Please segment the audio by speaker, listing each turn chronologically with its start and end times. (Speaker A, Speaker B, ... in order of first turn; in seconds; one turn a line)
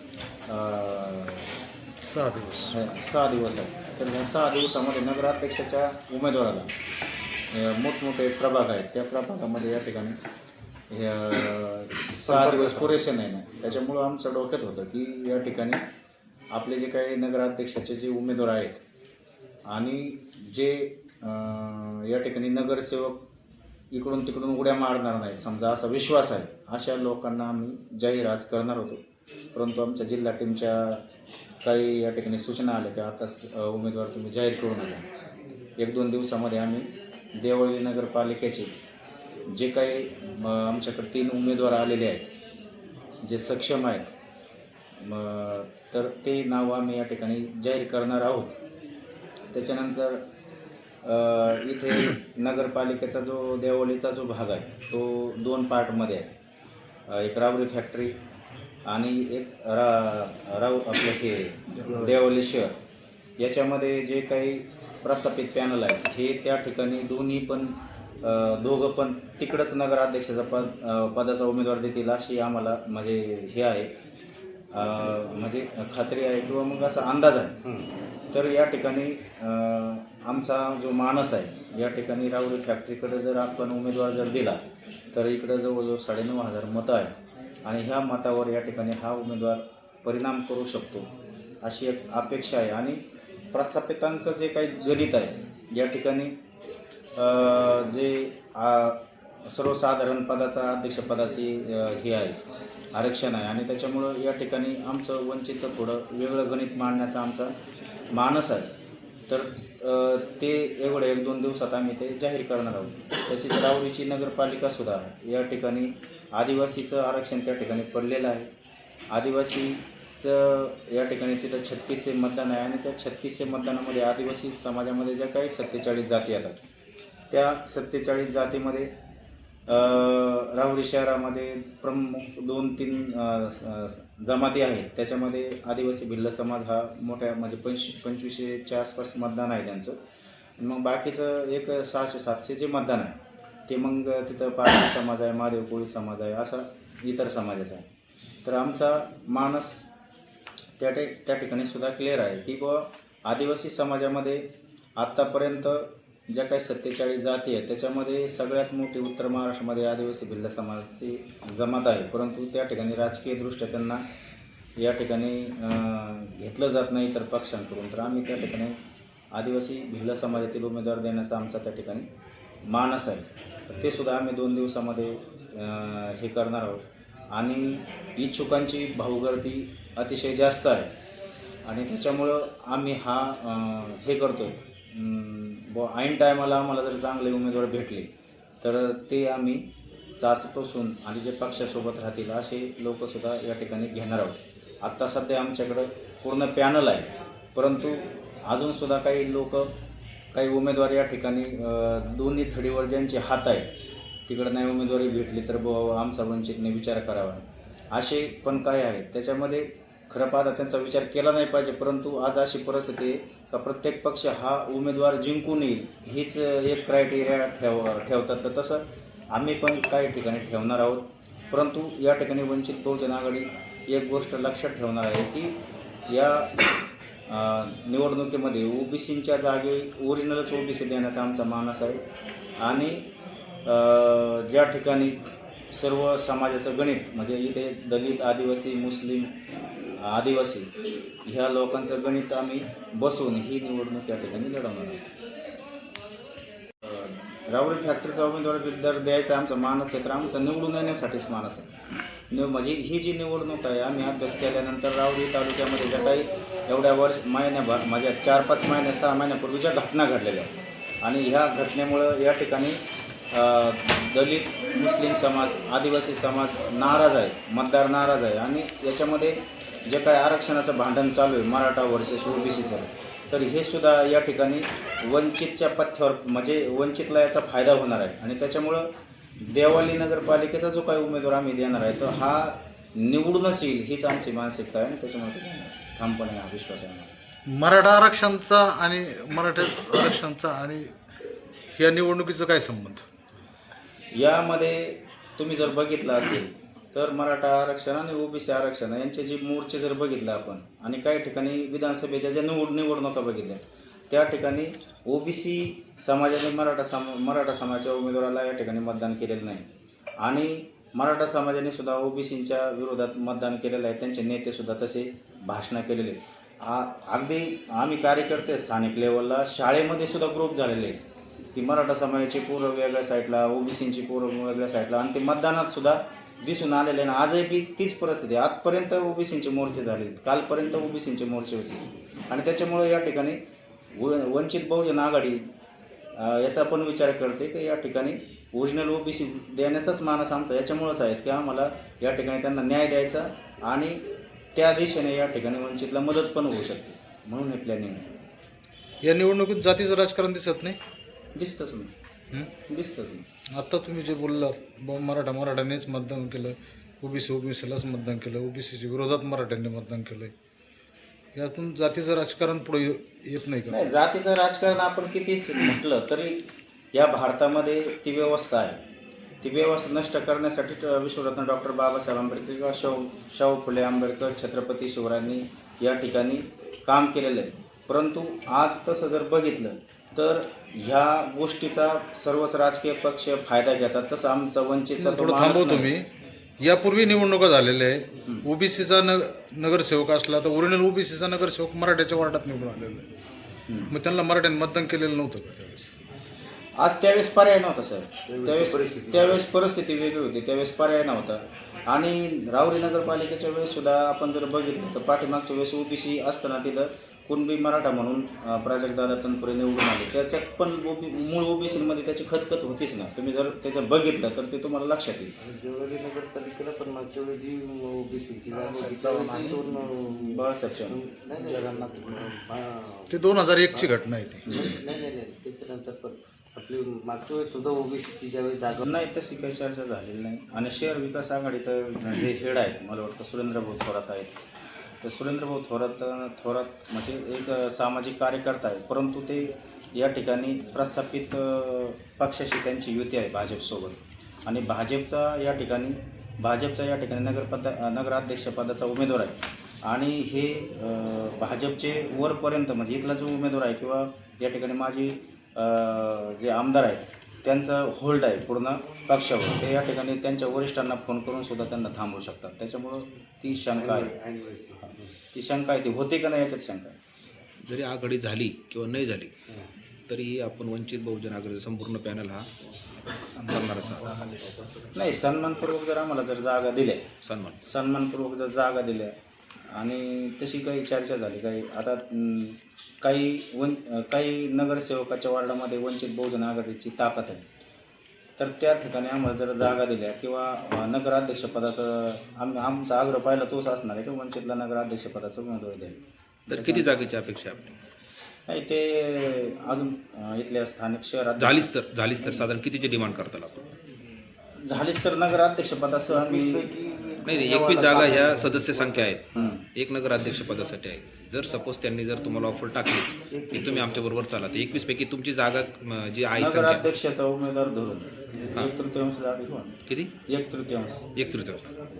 Speaker A: 0.5-1.5
Speaker B: 2.0-2.8
Speaker A: 2.7-6.7
Speaker A: 7.5-10.2
Speaker A: 10.9-15.8
Speaker B: 12.3-12.6
Speaker A: 16.5-18.8
Speaker A: 19.7-23.2
Speaker A: 23.9-29.0
Speaker A: 29.5-31.0
Speaker A: 31.6-35.0
Speaker A: 35.8-38.7
Speaker A: 39.5-42.3
Speaker A: 43.2-44.1
Speaker A: 45.0-48.6
Speaker A: 49.5-50.2
Speaker A: 51.0-56.3
Speaker A: 57.1-58.2
Speaker A: 58.8-62.8
Speaker A: 63.4-73.9
Speaker A: 74.7-77.6
Speaker A: 78.3-84.6
Speaker A: 85.1-91.1
Speaker A: 91.6-93.0
Speaker A: 93.5-96.4
Speaker A: 97.2-102.4
Speaker A: 102.9-107.5
Speaker A: 108.1-108.7
Speaker A: 109.3-118.5
Speaker A: 119.1-126.6
Speaker A: 127.3-128.9
Speaker A: 129.7-140.0
Speaker A: 140.6-147.9
Speaker A: 148.4-149.9
Speaker A: 150.8-164.0
Speaker A: 164.8-168.8
Speaker A: 169.3-172.1
Speaker A: 172.7-180.9
Speaker A: 181.6-189.6
Speaker A: 190.2-199.7
Speaker A: 200.3-203.7
Speaker A: 204.3-225.5
Speaker A: 226.1-226.6
Speaker A: 227.3-232.0
Speaker A: 232.6-233.1
Speaker A: 233.6-239.3
Speaker A: 240.0-240.7
Speaker A: 241.2-245.1
Speaker A: 246.8-287.1
Speaker B: 287.5-290.9
Speaker B: 291.7-293.1
Speaker A: 294.1-309.7
Speaker A: 310.2-321.0
Speaker A: 321.5-333.4
Speaker A: 333.9-335.5
Speaker A: 336.1-344.0
Speaker A: 344.5-348.1
Speaker B: 349.1-350.8
Speaker A: 351.4-351.9
Speaker A: 352.6-353.2
Speaker B: 353.5-360.3
Speaker B: 361.4-363.7
Speaker A: 363.7-368.8
Speaker A: 369.4-385.9
Speaker B: 385.0-386.1
Speaker B: 386.6-393.1
Speaker B: 393.9-395.9
Speaker A: 396.8-415.3
Speaker C: 398.3-399.4
Speaker C: 415.4-423.9
Speaker A: 418.7-421.0
Speaker B: 423.1-424.6
Speaker C: 424.5-428.9
Speaker A: 428.9-434.4
Speaker A: 435.0-464.1
Speaker C: 463.7-465.1
Speaker A: 465.3-466.9
Speaker D: 467.6-469.3
Speaker D: 470.1-472.5
Speaker D: 473.3-474.5
Speaker A: 474.9-477.1
Speaker D: 477.2-477.6
Speaker A: 477.6-479.1
Speaker A: 479.7-487.4
Speaker A: 488.4-496.0
Speaker A: 496.5-496.9
Speaker D: 496.5-497.8
Speaker A: 498.5-501.7
Speaker D: 501.4-503.6
Speaker A: 504.6-506.7
Speaker C: 506.1-509.5
Speaker D: 507.2-516.9
Speaker A: 509.3-509.6
Speaker C: 513.3-514.1
Speaker A: 516.3-519.8
Speaker D: 519.9-520.1
Speaker A: 520.3-521.1
Speaker D: 521.1-521.8